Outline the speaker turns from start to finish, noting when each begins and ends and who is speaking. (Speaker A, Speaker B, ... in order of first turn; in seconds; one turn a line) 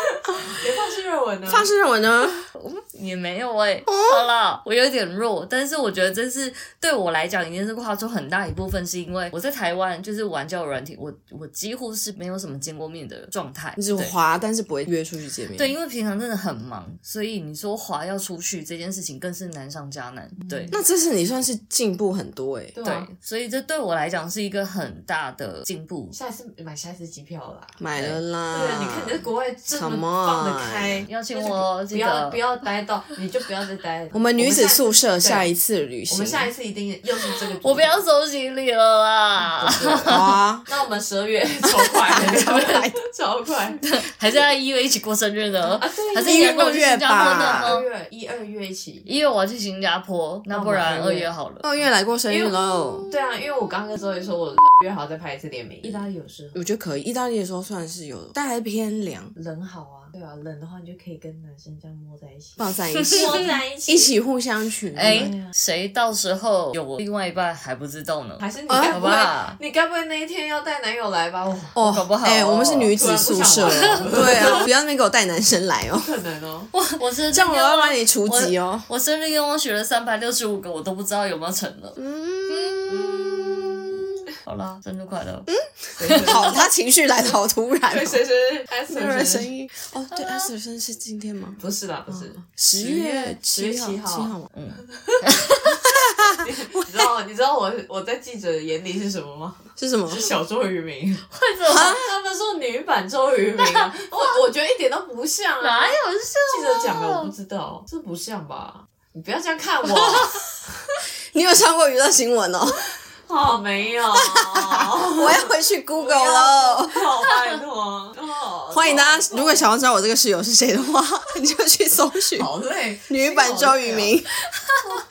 Speaker A: 0.3-1.7
Speaker B: 1.4-2.5
Speaker C: 2.6-14.1
Speaker B: 3.9-4.2
Speaker B: 13.8-15.7
Speaker C: 15.5-20.8
Speaker A: 20.4-20.8
Speaker B: 20.7-22.7
Speaker A: 22.7-23.1
Speaker C: 22.8-26.2
Speaker A: 26.1-27.8
Speaker B: 27.8-31.0
Speaker C: 27.9-28.2
Speaker A: 28.5-35.5
Speaker C: 31.1-32.4
Speaker B: 34.1-36.5
Speaker A: 36.1-38.0
Speaker C: 37.6-40.4
Speaker A: 39.4-40.1
Speaker B: 40.0-40.7
Speaker A: 40.7-43.8
Speaker B: 42.1-43.0
Speaker C: 43.8-47.9
Speaker A: 45.6-49.1
Speaker B: 46.2-47.8
Speaker C: 49.0-51.6
Speaker A: 50.5-51.3
Speaker B: 51.6-53.1
Speaker A: 52.3-56.6
Speaker B: 56.5-59.3
Speaker A: 59.3-64.1
Speaker B: 62.6-65.3
Speaker C: 62.9-63.2
Speaker C: 64.9-69.6
Speaker A: 65.0-65.5
Speaker A: 68.4-71.7
Speaker B: 68.7-69.0
Speaker B: 71.7-76.1
Speaker C: 71.8-73.0
Speaker A: 72.9-74.6
Speaker C: 73.7-74.6
Speaker A: 76.0-76.7
Speaker C: 76.7-86.6
Speaker B: 77.3-78.9
Speaker B: 82.0-83.9
Speaker B: 85.5-88.2
Speaker A: 86.0-86.7
Speaker A: 87.9-89.5
Speaker B: 88.9-91.6
Speaker C: 90.1-90.5
Speaker A: 91.6-95.3
Speaker B: 92.4-94.5
Speaker C: 94.5-95.8
Speaker B: 95.9-96.4
Speaker A: 96.3-111.0
Speaker B: 99.8-100.2
Speaker C: 101.3-102.0
Speaker B: 101.6-102.0
Speaker C: 103.6-103.9
Speaker C: 105.6-107.3
Speaker B: 111.3-112.9
Speaker A: 113.2-119.7
Speaker B: 114.3-117.1
Speaker B: 118.7-122.5
Speaker A: 122.3-124.2
Speaker B: 123.1-124.4
Speaker C: 124.7-124.9